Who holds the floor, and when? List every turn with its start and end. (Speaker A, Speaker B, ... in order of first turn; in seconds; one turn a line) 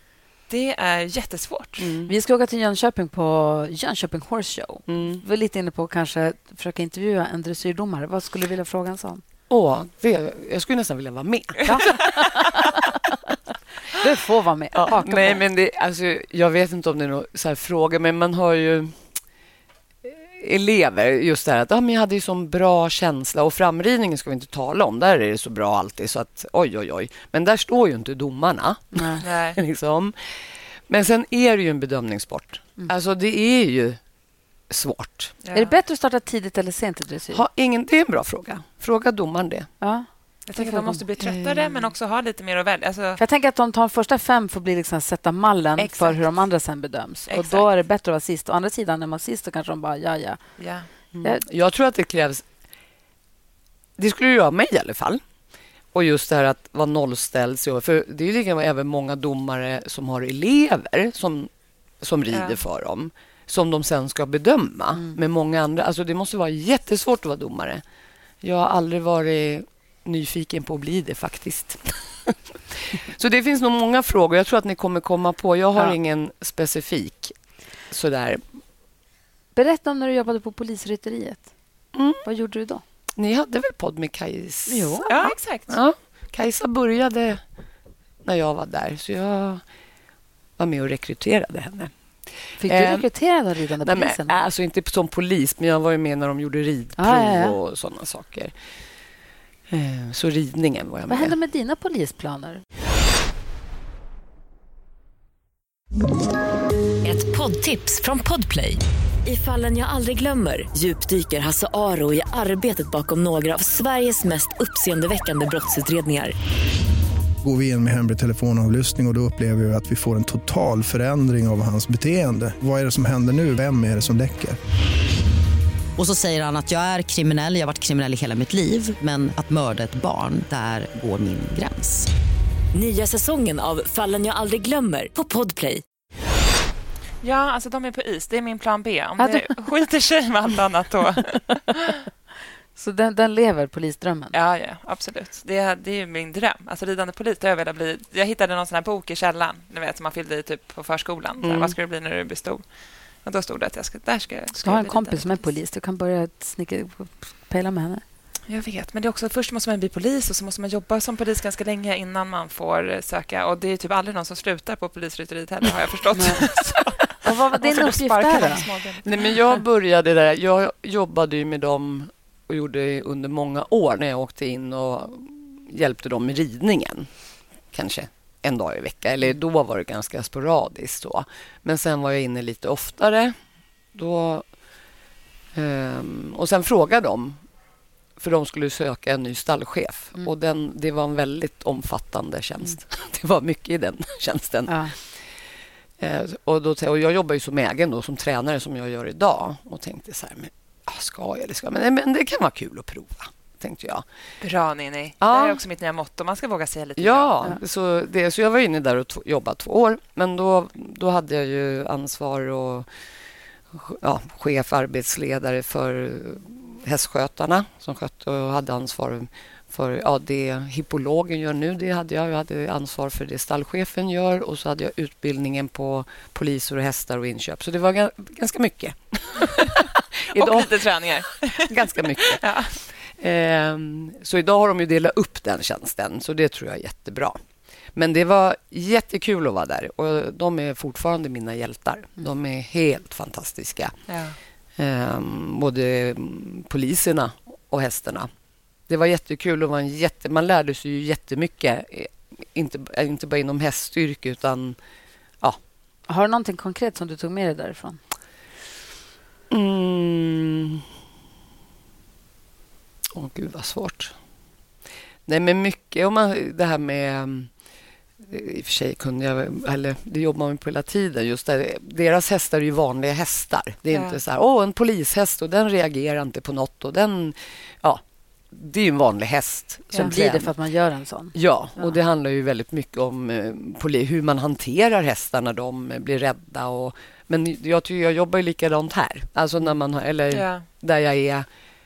Speaker A: 0.5-1.9
Speaker B: 1.8-2.1
Speaker C: 2.1-9.2
Speaker B: 4.9-5.2
Speaker B: 9.5-11.9
Speaker C: 11.7-13.1
Speaker C: 13.9-15.4
Speaker B: 14.8-19.0
Speaker B: 20.0-30.2
Speaker C: 28.9-29.2
Speaker A: 29.2-29.6
Speaker B: 30.9-34.0
Speaker B: 34.7-35.4
Speaker A: 35.4-35.8
Speaker C: 35.5-37.4
Speaker B: 37.3-39.7
Speaker C: 39.8-41.0
Speaker A: 40.5-43.2
Speaker B: 41.2-41.9
Speaker C: 43.2-50.4
Speaker A: 45.8-46.2
Speaker A: 47.3-47.7
Speaker A: 50.6-50.9
Speaker B: 51.1-52.5
Speaker B: 54.0-55.2
Speaker B: 55.9-61.5
Speaker B: 62.0-67.8
Speaker A: 62.3-62.6
Speaker B: 68.4-77.3
Speaker B: 77.9-78.4
Speaker C: 79.5-81.4
Speaker B: 81.9-82.2
Speaker C: 82.2-82.8
Speaker B: 83.2-87.4
Speaker C: 84.7-85.1
Speaker A: 85.1-85.8
Speaker B: 88.2-89.6
Speaker B: 90.6-91.9
Speaker C: 92.6-94.4
Speaker B: 92.6-93.0
Speaker B: 93.8-98.5
Speaker C: 97.0-97.6
Speaker B: 99.7-101.3
Speaker C: 101.1-102.6
Speaker D: 107.0-116.3
Speaker E: 117.4-124.6
Speaker F: 126.0-132.1
Speaker D: 132.7-135.8
Speaker A: 137.2-141.9
Speaker C: 139.2-139.5
Speaker C: 142.8-144.3
Speaker A: 144.3-152.6
Speaker B: 151.4-151.8
Speaker A: 153.2-155.5
Speaker C: 154.6-158.0
Speaker A: 158.5-169.4
Speaker C: 166.2-166.5
Speaker C: 167.2-168.7
Speaker B: 169.0-177.1
Speaker B: 177.7-183.4
Speaker B: 183.9-184.5
Speaker B: 185.5-187.4
Speaker B: 188.2-194.9
Speaker C: 194.7-194.9
Speaker B: 196.0-204.1
Speaker A: 204.4-207.4
Speaker B: 205.2-205.6
Speaker B: 207.0-212.9
Speaker B: 213.7-230.9
Speaker A: 229.6-232.8
Speaker B: 231.6-232.4
Speaker B: 233.1-237.4
Speaker B: 237.9-243.9
Speaker A: 244.1-244.4
Speaker B: 244.8-248.3
Speaker B: 248.9-254.8
Speaker C: 256.1-258.0
Speaker B: 259.5-260.9
Speaker B: 263.1-264.1
Speaker B: 265.3-267.5
Speaker B: 268.2-280.5
Speaker A: 273.9-274.2
Speaker C: 279.9-281.9
Speaker B: 281.3-291.5
Speaker A: 290.3-290.7